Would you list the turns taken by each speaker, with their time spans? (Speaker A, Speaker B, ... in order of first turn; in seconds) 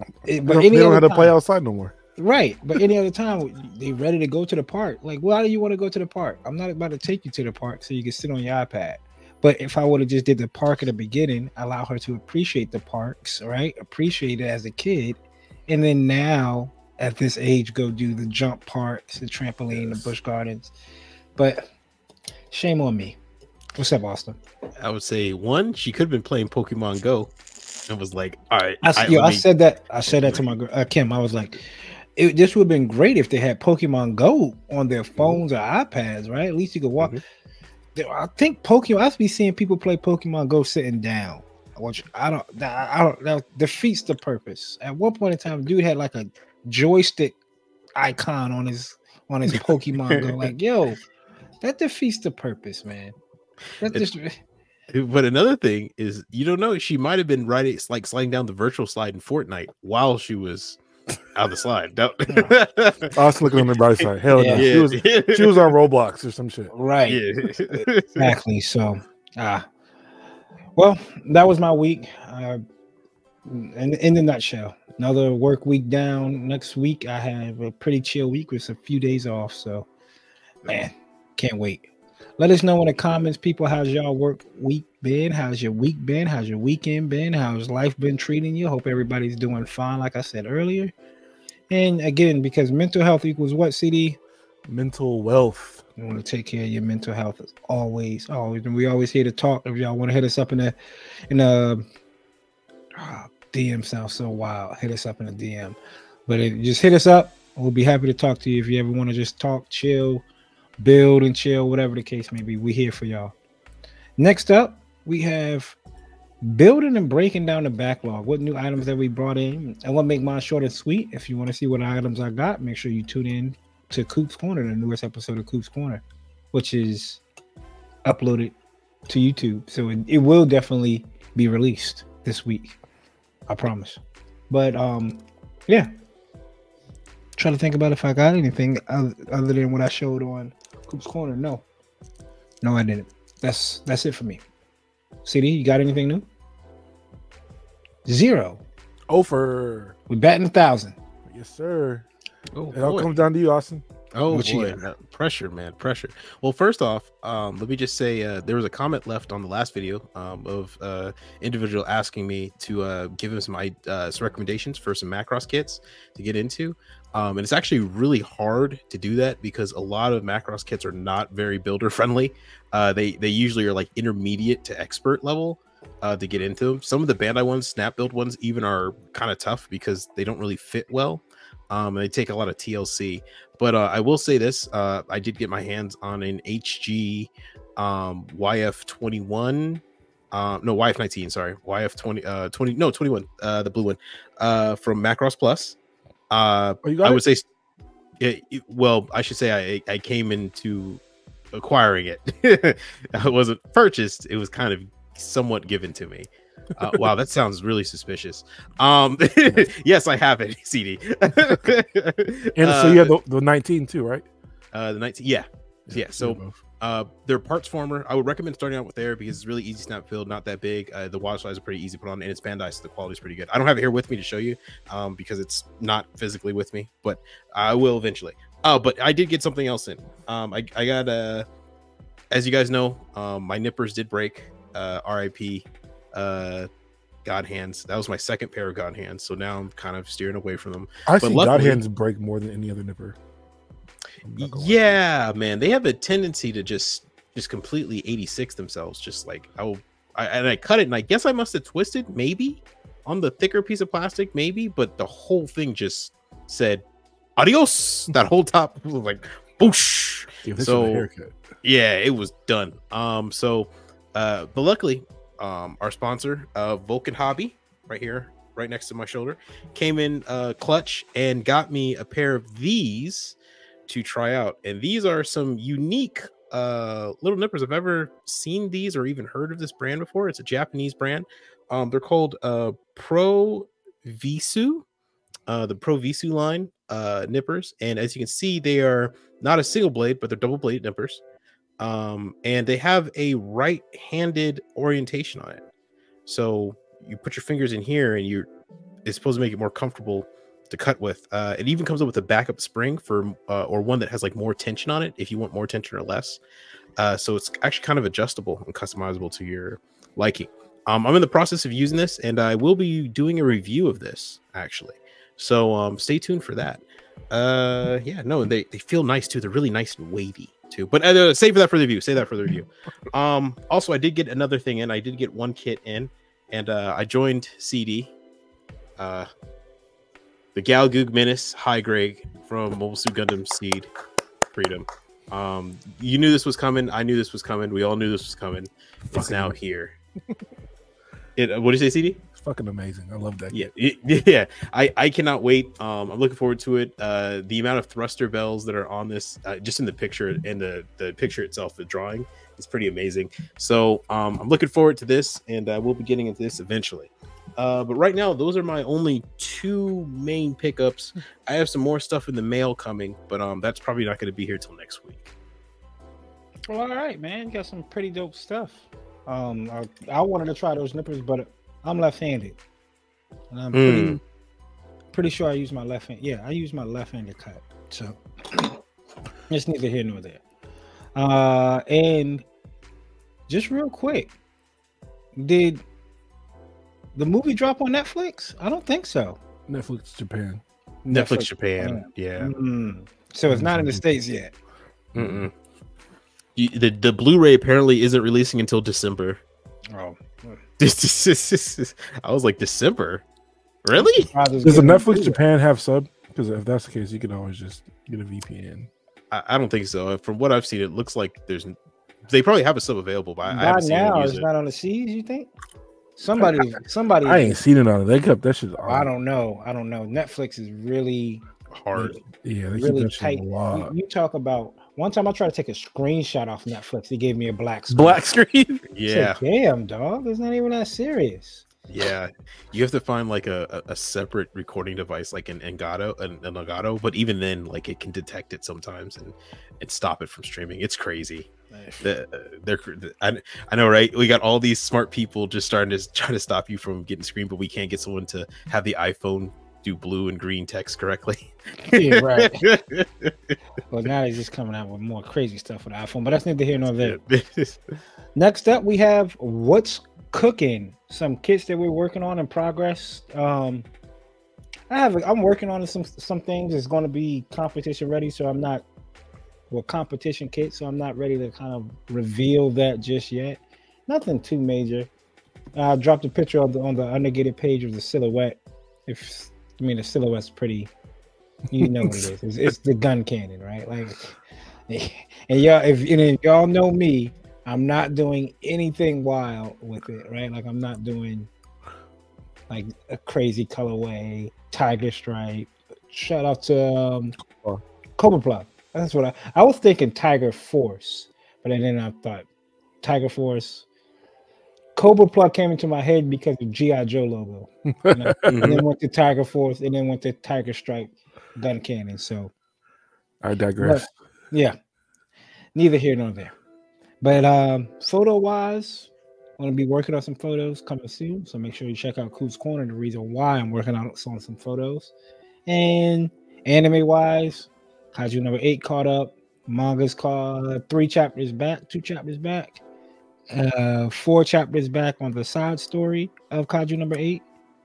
Speaker A: 0.3-1.3, 2.2-20.7, 21.4-21.7, 22.5-23.2, 23.8-24.4, 28.8-31.6, 32.2-37.2, 38.0-47.4, 48.0-51.0, 51.6-53.2, 53.8-54.4, 64.4-64.7, 66.7-69.7, 70.8-72.6, 73.5-79.9, 80.7-81.9, 82.4-90.9, 91.7-94.2, 96.0-100.8, 101.3-101.9, 103.0-110.2, 110.8-113.3, 114.2-115.8, 116.4-127.2, 128.1-128.6, 129.1-132.8, 133.5-135.9, 137.4-141.7, 142.6-144.4, 145.2-146.3, 148.1-148.6, 150.1-151.0, 154.3-154.8, 366.7-372.6, 373.5-374.2, 375.1-378.8, 379.5-380.4, 381.1-382.5, 383.5-384.3, 385.4-385.8, 387.1-389.4, 391.1-394.5, 399.9-400.6, 404.0-405.4, 413.5-415.5, 416.2-417.6, 418.9-421.4, 422.8-428.2, 429.1-431.7, 441.7-442.1, 451.9-452.7, 453.9-457.2, 458.4-463.9, 464.9-468.9, 469.7-475.1, 475.8-480.9, 481.7-484.4, 484.9-491.5, 492.7-497.4, 498.2-502.5, 503.0-503.9, 505.0-512.5, 513.8-514.8, 515.8-516.5, 517.2-525.1, 525.7-532.8, 533.5-537.4
Speaker B: 0.3-1.9, 19.7-20.1, 63.1-66.7, 94.7-95.8, 149.1-150.0, 151.3-152.1, 152.7-153.8, 196.8-197.2, 212.6-214.3, 215.9-216.6, 241.1-243.2, 244.2-245.0, 260.4-261.4, 339.1-339.6, 342.4-343.7, 389.7-390.6, 393.5-394.0, 395.1-395.4, 404.6-408.9, 417.2-419.1, 422.1-423.9, 427.9-428.9, 481.7-482.4, 497.5-497.8, 508.1-508.8, 513.4-514.1
Speaker C: 24.8-27.3, 27.9-29.4, 30.1-30.4, 49.5-50.4, 54.9-60.8, 61.3-63.8, 64.5-65.7, 67.1-68.3, 152.6-153.1, 154.1-195.8, 196.3-197.4, 198.2-201.0, 201.5-213.1, 214.7-231.5, 232.3-236.7, 237.2-241.8, 244.4-256.8, 257.4-261.1, 261.6-273.4, 273.9-284.8, 285.5-291.2, 291.8-295.6, 296.3-298.5, 299.1-306.4, 307.0-328.1, 329.0-329.3, 330.6-333.9, 334.5-339.9, 341.4-342.2, 343.5-365.3, 373.7-374.2, 391.1-392.5, 395.1-395.5, 396.6-399.4, 400.8-403.2, 403.8-404.3, 409.3-411.8, 412.3-414.5, 421.7-422.2, 428.9-429.4, 431.9-441.5, 442.0-453.3, 457.0-457.8, 508.5-508.8